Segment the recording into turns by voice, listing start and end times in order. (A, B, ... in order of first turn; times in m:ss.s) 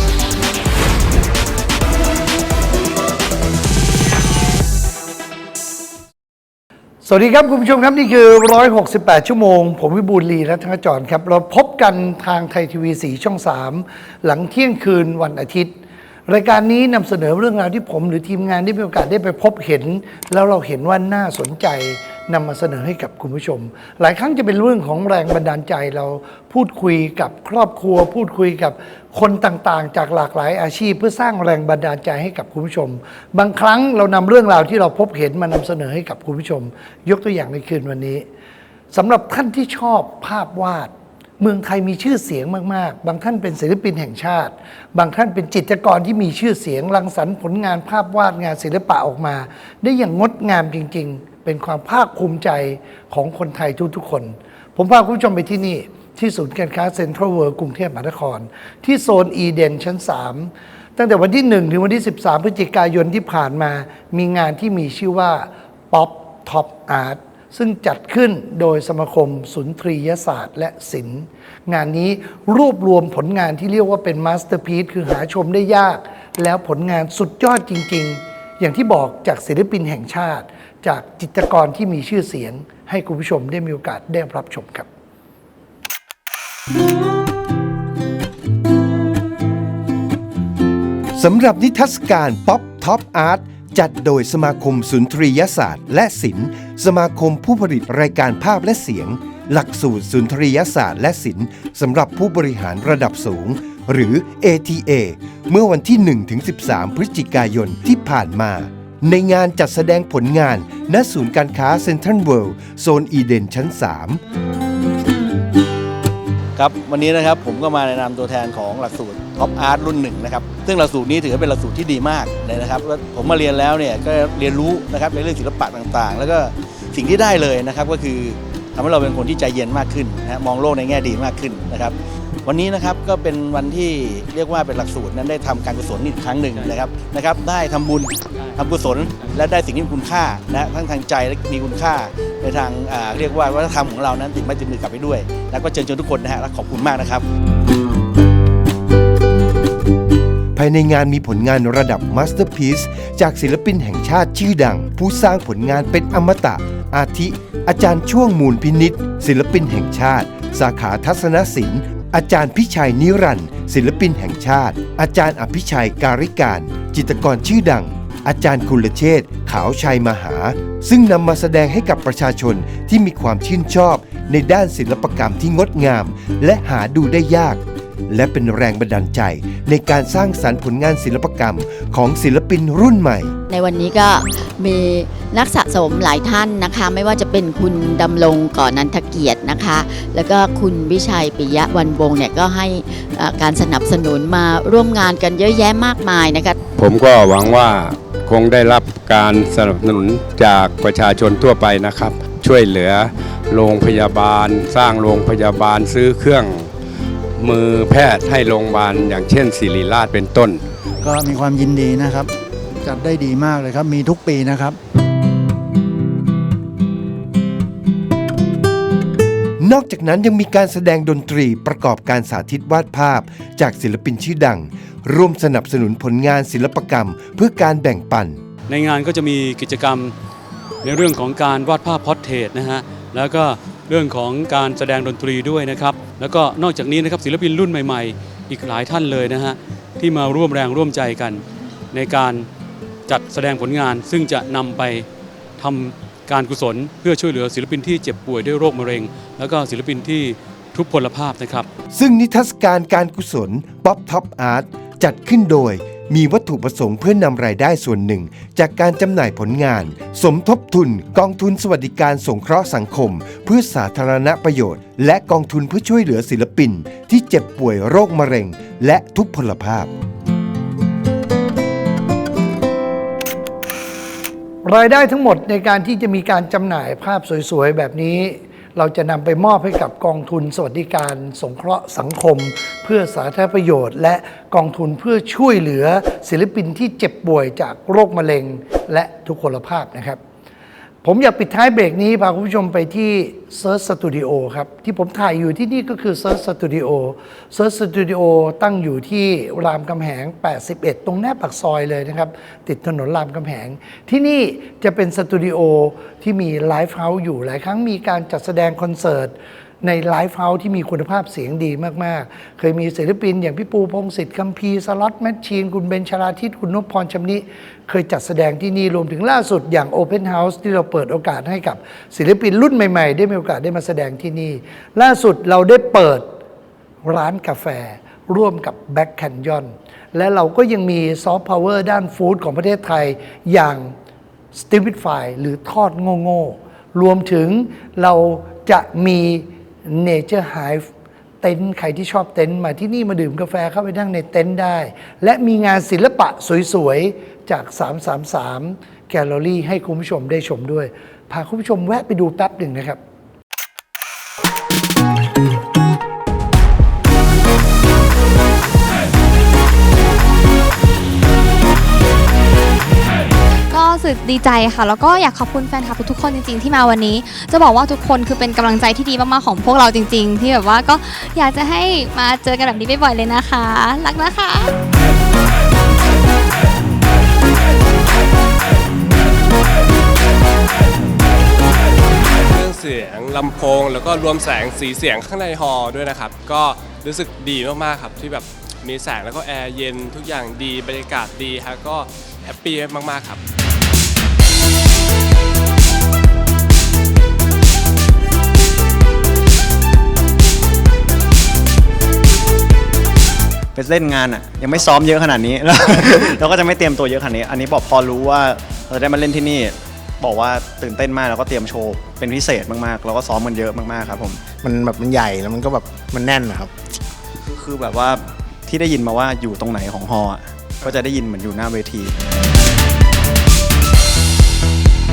0:07.0-0:38.3 A
0:38.9-1:24.9 A
1:31.2-1:54.2 B
1:56.6-2:27.2 C
2:30.6-3:03.3 B
3:03.5-3:16.6 D
3:16.8-3:26.7 E
3:27.4-3:30.6 E
3:31.0-3:32.3 F
3:32.8-3:34.8 F
3:39.6-3:48.4 B
3:48.7-3:50.1 G
3:50.8-4:02.5 G
4:03.1-4:05.0 G
4:05.6-4:11.7 G
4:11.9-4:29.9 B
4:34.6-4:50.2 A
4:51.0-5:26.3 A
5:27.0-5:33.9 A
5:34.5-5:40.9 A
5:41.4-5:53.0 A
6:03.7-6:14.7 H
6:22.6-6:33.3 I
6:22.6-6:25.2 H
6:26.3-6:27.5 H
6:28.1-6:28.4 H
6:30.0-6:33.4 H
6:43.8-6:54.4 J
6:54.5-6:56.7 K
6:57.5-7:02.1 J